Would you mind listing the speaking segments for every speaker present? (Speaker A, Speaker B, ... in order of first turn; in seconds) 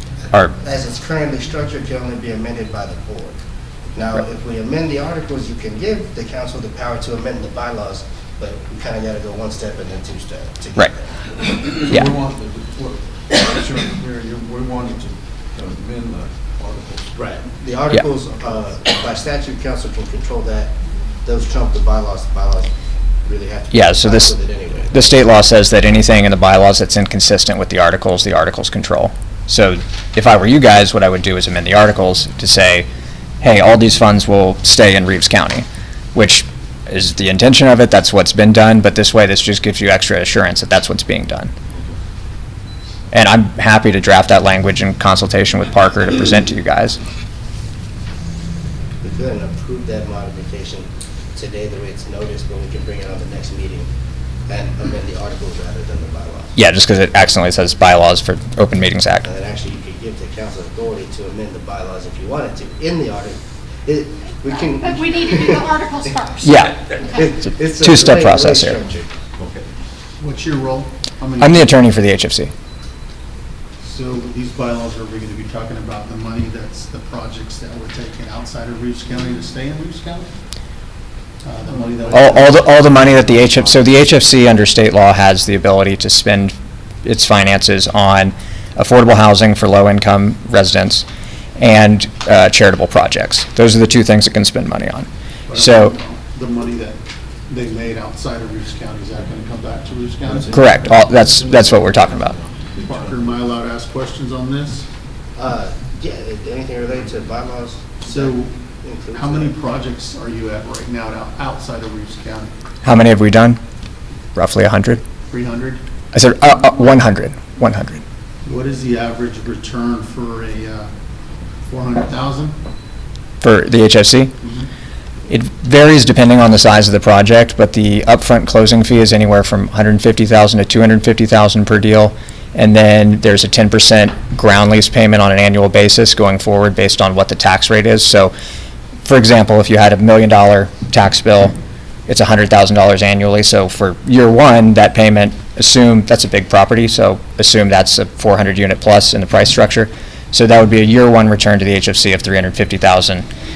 Speaker A: 0.2-3.4, 3.9-11.1, 17.1-22.7, 23.2-25.0, 49.0-53.9, 54.5-56.5, 59.2-66.1, 67.0-69.1, 105.4-109.5
Speaker B: 11.4-17.1, 81.7-83.9, 100.2-103.5
Speaker C: 23.7-24.4, 24.9-32.9, 33.4-41.5, 43.1-47.0, 56.5-59.3, 66.4-66.9, 67.6-68.8, 71.4-72.5, 82.1-91.0, 91.6-96.0, 100.5-102.3, 112.8-113.6, 114.3-115.0, 116.1-118.0, 123.4-124.3, 125.3-138.3, 139.1-141.6, 142.1-153.2
Speaker D: 64.5-66.7
Speaker E: 70.2-71.8, 73.8-80.3, 81.4-82.5, 95.5-101.0, 102.8-104.9, 108.0-108.5, 109.1-112.5, 115.3-115.8, 118.5-120.9, 121.7-122.5, 124.4-124.7